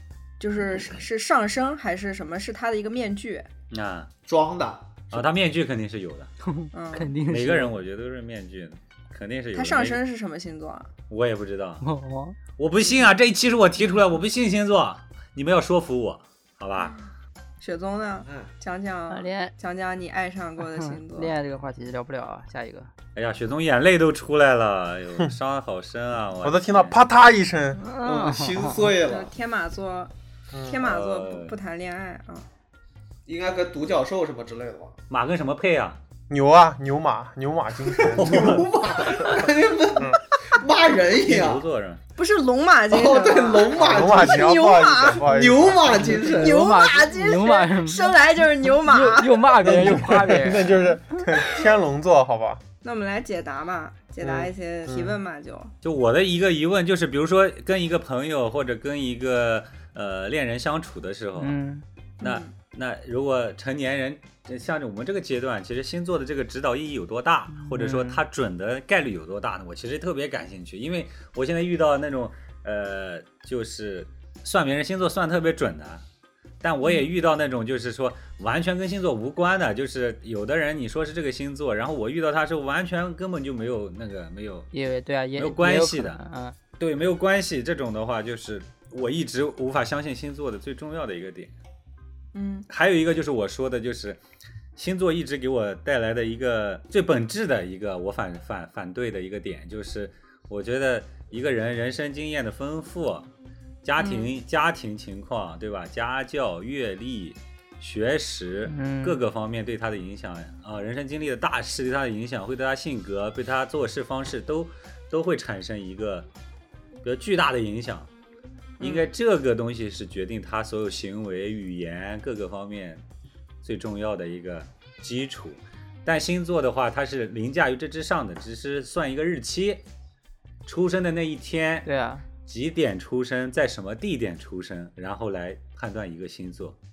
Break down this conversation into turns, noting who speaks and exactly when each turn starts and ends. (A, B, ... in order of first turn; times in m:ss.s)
0:00.4-0:03.5 A
0:03.7-0:04.1 B
0:04.2-0:05.2 C
0:05.1-0:06.3 B
0:06.4-0:07.7 D
0:06.7-0:07.1 A
0:07.2-0:10.0 B
0:09.5-0:10.9 A
0:11.1-0:11.8 B
0:11.8-0:12.4 D
0:12.6-0:17.0 B
0:17.6-0:21.3 A
0:19.1-0:19.5 D
0:20.7-0:22.9 D
0:23.2-0:27.0 B
0:26.4-0:27.8 E
0:27.8-0:28.8 D
0:28.0-0:29.3 C
0:29.0-0:30.1 A
0:30.5-0:30.8 E
0:30.6-0:32.5 A
0:30.8-0:31.5 B
0:33.2-0:34.9 C
0:35.1-0:36.0 B
0:36.3-0:38.6 E
0:38.0-0:41.6 C
0:38.1-0:38.7 B
0:41.2-0:42.0 B
0:42.2-0:45.2 A
0:42.9-0:44.5 C
0:43.7-0:46.0 E
0:45.2-0:46.6 C
0:45.9-0:48.2 D
0:46.3-0:49.6 A
0:48.8-0:50.9 D
0:49.6-0:52.6 E
0:52.8-0:55.7 A
0:55.8-1:01.6 B
1:01.4-1:01.8 D
1:02.2-1:02.5 A
1:02.2-1:16.0 B
1:07.6-1:08.2 D
1:16.6-1:24.7 B
1:24.7-1:26.6 D
1:25.3-1:26.2 B
1:26.8-1:31.5 B
1:32.3-1:32.7 A
1:32.7-1:34.2 B
1:34.8-1:43.3 B
1:43.8-1:56.3 B
1:44.0-1:44.3 A
1:48.6-1:49.2 D
1:57.0-1:58.1 B
1:58.8-1:59.1 A
1:58.8-2:03.0 B
2:03.6-2:09.8 B
2:10.6-2:11.9 B
2:11.8-2:12.2 D
2:12.4-2:16.8 B